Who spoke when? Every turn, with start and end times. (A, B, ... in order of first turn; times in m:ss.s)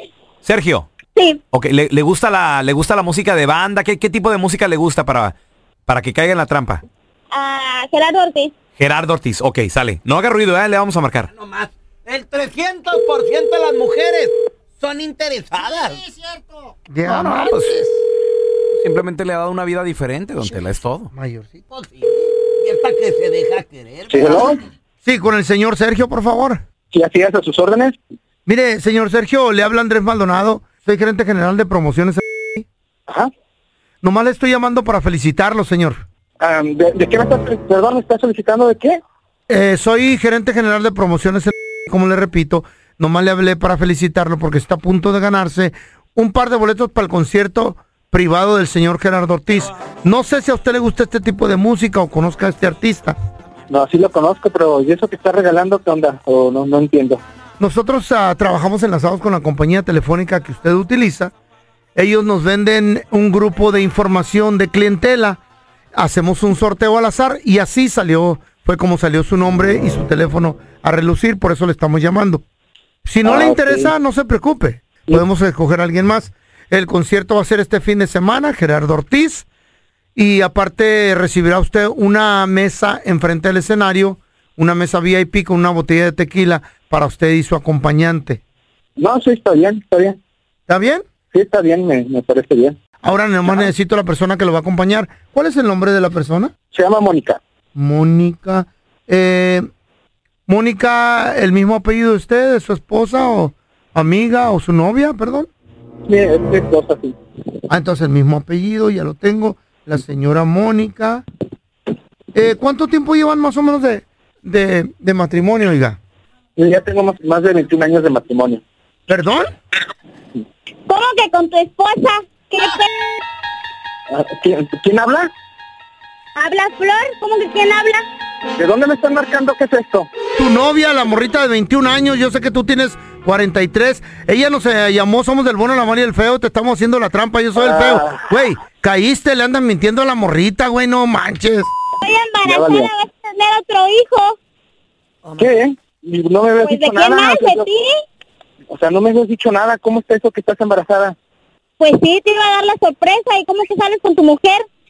0:00.4-0:00.9 A
0:01.2-0:01.4 B
0:01.5-0:05.4 A
0:05.9-0:06.8 A
0:07.3-0:08.5 B
0:08.8-0:11.3 A
0:12.1-0:16.0 C
0:16.9-0:17.6 D
0:17.1-0:17.7 A
0:18.8-0:21.1 A
0:21.1-0:21.6 D
0:21.7-0:22.1 C
0:22.6-0:24.4 C
0:24.1-0:24.6 E
0:25.0-0:26.6 D
0:26.9-0:28.0 E
0:28.5-0:32.7 D
0:34.0-0:36.0 D
0:36.4-0:39.0 E
0:39.5-0:53.2 D
0:53.7-0:57.2 E
0:57.6-1:01.3 D
1:02.0-1:05.4 D
1:06.0-1:12.4 D
1:13.1-1:19.5 D
1:13.2-1:13.9 E
1:20.2-1:28.4 D
1:29.0-1:30.2 E
1:30.7-1:31.0 D
1:31.3-1:32.8 E
1:33.0-1:36.5 D
1:36.7-1:37.4 E
1:37.8-1:39.7 D
1:40.5-1:45.5 D
1:46.1-1:47.2 E
1:47.7-1:51.2 D
1:52.3-1:56.0 D
1:56.6-1:58.6 E
1:59.1-1:59.4 D
2:00.9-2:02.9 B
2:04.1-2:05.3 E
2:06.4-2:08.0 B
2:08.6-2:10.1 E
2:10.4-2:21.7 D
2:17.6-2:18.3 E
2:22.0-2:24.4 B
2:22.4-2:22.9 E
2:25.4-2:27.7 E
2:26.6-2:27.9 B
2:28.7-2:31.2 E
2:31.8-2:34.6 B